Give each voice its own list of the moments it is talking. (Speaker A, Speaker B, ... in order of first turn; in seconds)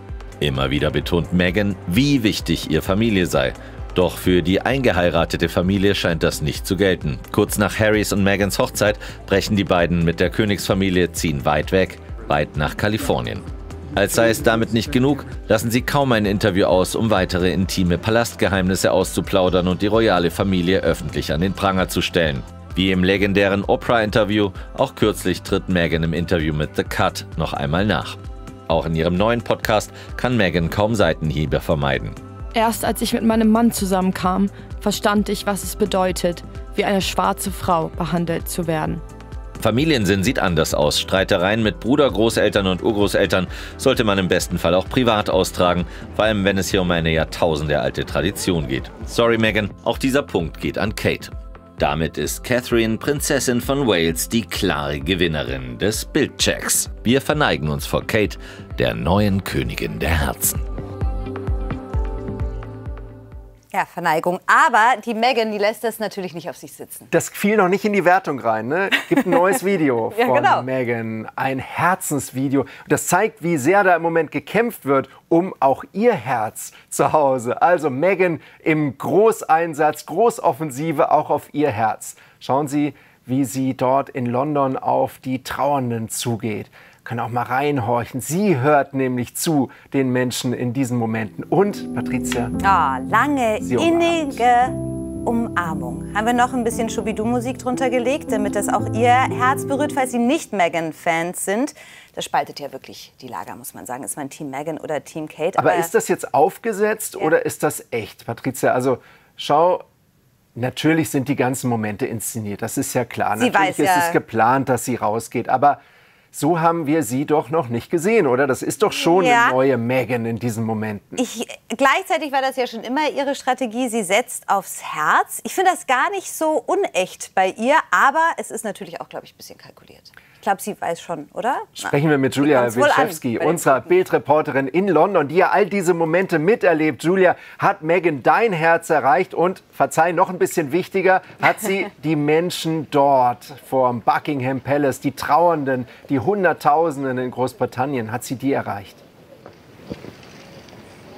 Speaker A: 0.4-13.4, 13.9-32.2, 39.6-60.6
Speaker B: 32.5-39.0
Speaker C: 63.7-67.1, 70.1-70.7, 92.6-105.9, 113.4-114.2, 118.9-119.5, 121.2-134.0
Speaker D: 67.1-92.5, 93.6-94.4, 105.6-109.8, 110.5-115.8, 116.3-121.2, 131.8-149.0